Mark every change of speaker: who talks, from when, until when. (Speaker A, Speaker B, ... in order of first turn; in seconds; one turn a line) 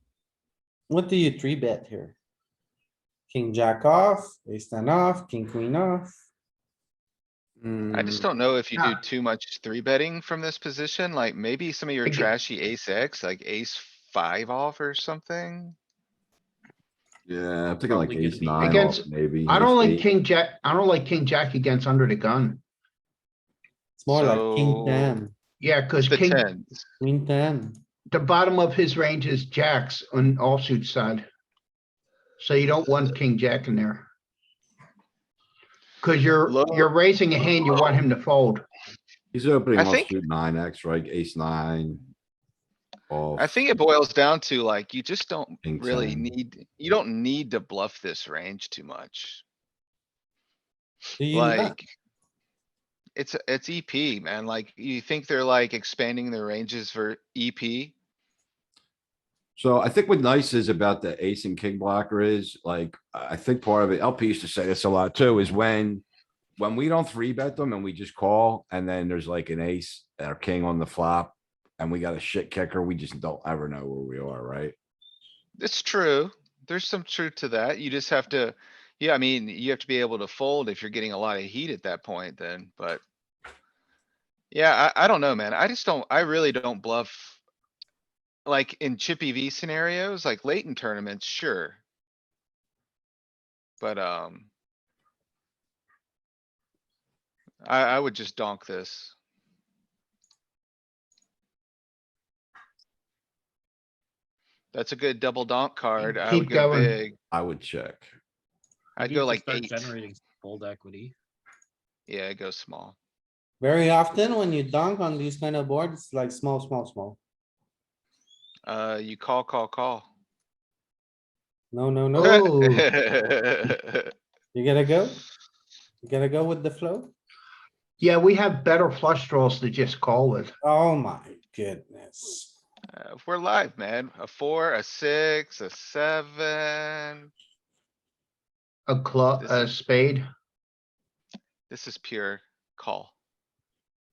Speaker A: 0.9-2.2
Speaker A: 3.3-6.2
Speaker B: 7.6-8.2
Speaker C: 7.9-15.8
Speaker B: 17.3-20.1
Speaker D: 17.9-18.8
Speaker E: 18.6-22.6
Speaker A: 24.0-25.4
Speaker C: 24.1-25.2
Speaker E: 25.6-26.5
Speaker C: 26.1-26.9
Speaker A: 27.0-27.8
Speaker E: 28.1-31.3
Speaker E: 32.4-34.1
Speaker E: 36.0-38.6
Speaker C: 36.5-36.9
Speaker B: 39.3-42.0
Speaker C: 39.8-40.1
Speaker B: 43.1-43.5
Speaker C: 43.4-49.4
Speaker B: 45.6-46.3
Speaker A: 51.2-51.8
Speaker C: 51.3-51.9
Speaker C: 53.2-57.9
Speaker B: 59.6-66.0
Speaker B: 66.6-74.8
Speaker C: 75.6-83.0
Speaker C: 84.5-87.4
Speaker C: 88.5-91.8
Speaker C: 93.8-94.5
Speaker C: 97.6-99.2
Speaker C: 104.7-107.2
Speaker E: 106.0-107.0
Speaker B: 107.3-108.1
Speaker C: 109.0-109.9
Speaker D: 109.0-111.2
Speaker C: 112.1-113.0
Speaker A: 113.6-117.2
Speaker C: 118.7-120.1
Speaker A: 121.7-122.5
Speaker E: 122.2-123.0
Speaker C: 122.2-124.1
Speaker A: 124.5-125.2
Speaker A: 126.0-127.1
Speaker E: 128.0-130.5
Speaker A: 130.6-132.5
Speaker C: 132.9-137.3
Speaker E: 138.9-140.2
Speaker C: 139.4-139.7
Speaker C: 141.7-143.1